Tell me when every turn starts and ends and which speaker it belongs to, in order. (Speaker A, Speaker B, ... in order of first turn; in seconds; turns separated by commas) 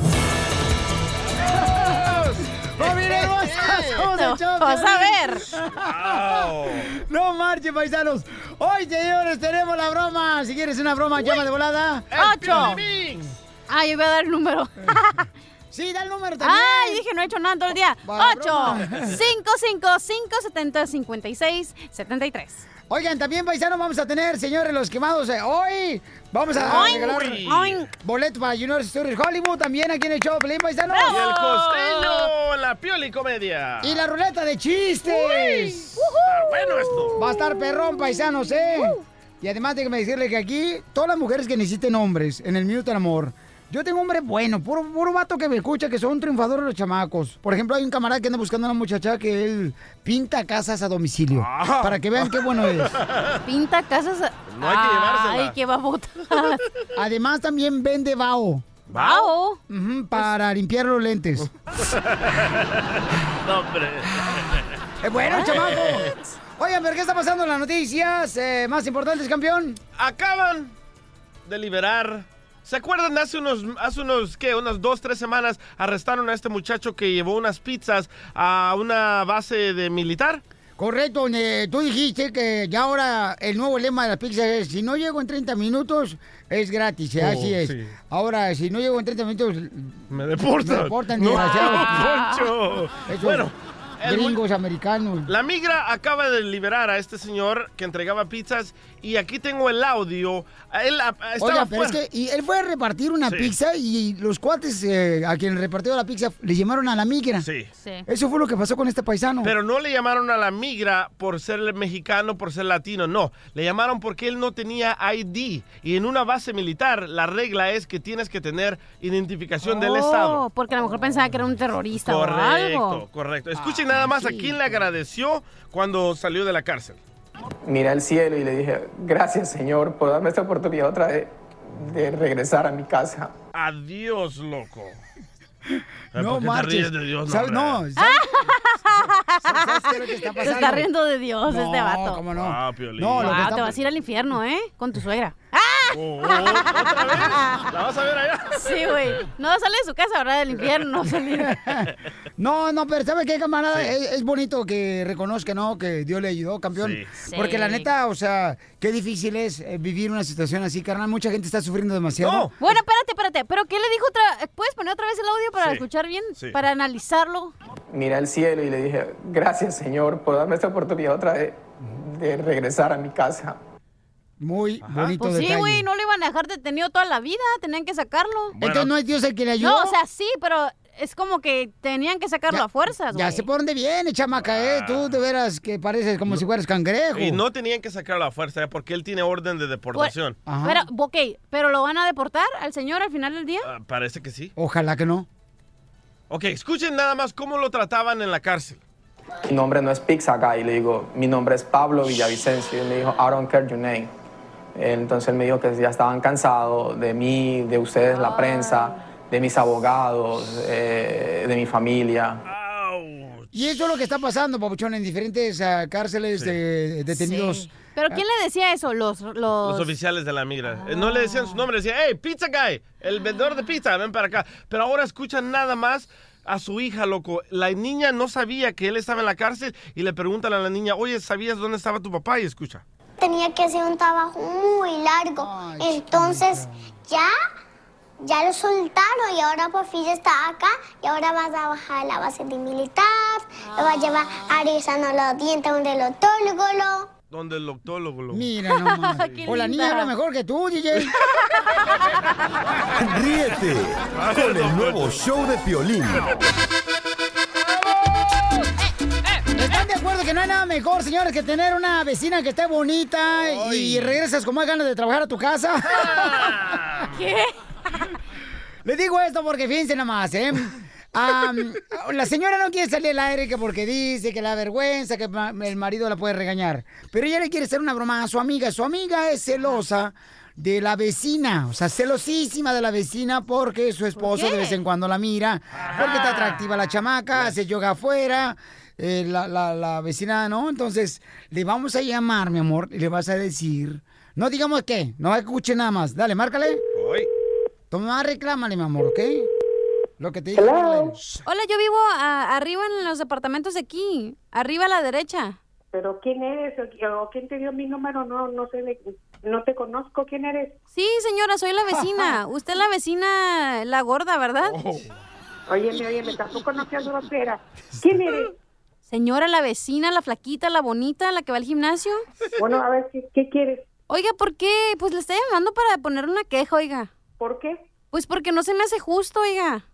Speaker A: 1.9-4.0, Speaker B: 2.8-6.3, Speaker C: 4.1-5.4, Speaker A: 5.8-6.9, Speaker B: 6.9-12.7, Speaker A: 12.1-13.3, Speaker C: 12.2-12.8, Speaker C: 13.7-15.3, Speaker B: 15.7-17.0, Speaker C: 16.4-22.7, Speaker B: 18.0-19.2, Speaker A: 18.9-19.2, Speaker B: 22.9-27.4, Speaker A: 26.6-27.8, Speaker C: 26.6-27.9, Speaker B: 28.0-31.2, Speaker C: 30.9-32.3, Speaker A: 31.1-34.0, Speaker B: 33.8-36.0, Speaker C: 35.1-36.4, Speaker A: 36.3-37.2, Speaker B: 37.2-52.9, Speaker C: 38.7-39.0, Speaker A: 51.3-53.2, Speaker C: 53.5-56.6, Speaker A: 54.5-55.6, Speaker B: 57.0-58.6, Speaker A: 58.9-59.3, Speaker C: 58.9-59.6, Speaker B: 59.7-61.5, Speaker A: 61.9-62.7, Speaker A: 63.4-64.4, Speaker B: 64.2-69.8, Speaker A: 65.5-66.1, Speaker A: 70.0-70.7, Speaker A: 71.5-80.4, Speaker B: 80.8-90.0, Speaker A: 87.2-87.8, Speaker A: 90.1-94.4, Speaker B: 90.6-92.0, Speaker C: 91.3-92.5, Speaker B: 93.1-93.5, Speaker B: 94.0-95.3, Speaker A: 95.3-102.0, Speaker B: 101.4-107.5, Speaker A: 103.3-103.5, Speaker A: 107.4-107.7, Speaker C: 107.8-108.0, Speaker B: 108.1-109.5, Speaker A: 109.4-120.5, Speaker C: 119.6-123.0, Speaker A: 122.0-127.0, Speaker C: 124.2-124.5, Speaker D: 127.7-133.3, Speaker A: 133.5-135.0, Speaker A: 136.1-137.9, Speaker B: 136.1-138.4, Speaker C: 138.0-142.2, Speaker B: 139.5-140.9, Speaker B: 141.5-143.8, Speaker A: 142.3-143.8, Speaker C: 143.2-147.7, Speaker A: 145.9-149.2, Speaker C: 148.6-151.6, Speaker B: 151.4-162.5, Speaker A: 156.7-157.1, Speaker C: 157.2-157.9, Speaker A: 162.2-162.5, Speaker C: 162.6-167.5, Speaker A: 165.6-165.9, Speaker D: 167.9-173.6, Speaker B: 174.4-175.9, Speaker A: 174.8-175.2, Speaker C: 175.2-178.6, Speaker A: 178.6-178.9, Speaker B: 178.6-179.9, Speaker C: 179.6-183.5, Speaker B: 182.5-187.4, Speaker A: 184.4-185.2, Speaker A: 187.2-190.4, Speaker C: 189.9-193.7, Speaker B: 190.5-190.9, Speaker A: 193.6-194.5, Speaker B: 194.6-195.3, Speaker A: 196.3-198.8, Speaker D: 199.4-204.1, Speaker D: 204.8-212.4, Speaker C: 208.1-209.0, Speaker A: 212.5-213.5, Speaker B: 213.5-218.2, Speaker C: 217.1-219.9, Speaker A: 219.6-232.8, Speaker C: 220.7-221.7, Speaker E: 233.2-237.3, Speaker B: 235.4-236.9, Speaker E: 238.2-247.1, Speaker C: 243.6-244.2, Speaker A: 247.3-248.5, Speaker B: 248.3-251.2, Speaker C: 248.7-250.1, Speaker F: 252.9-256.3, Speaker A: 254.1-255.2, Speaker B: 259.6-266.5, Speaker A: 263.4-264.2, Speaker A: 266.0-267.0, Speaker C: 267.1-267.6, Speaker B: 268.9-296.8, Speaker C: 284.2-284.8, Speaker A: 285.8-286.5, Speaker C: 286.0-286.6, Speaker A: 297.0-297.3, Speaker B: 297.9-299.5, Speaker B: 300.2-301.2, Speaker G: 300.6-301.1, Speaker C: 301.5-305.6, Speaker G: 305.9-310.8, Speaker C: 310.9-314.8, Speaker A: 314.6-315.0, Speaker G: 315.7-318.5, Speaker C: 319.1-322.2, Speaker G: 322.6-323.9, Speaker C: 324.1-327.1, Speaker G: 327.4-327.9, Speaker C: 328.1-329.8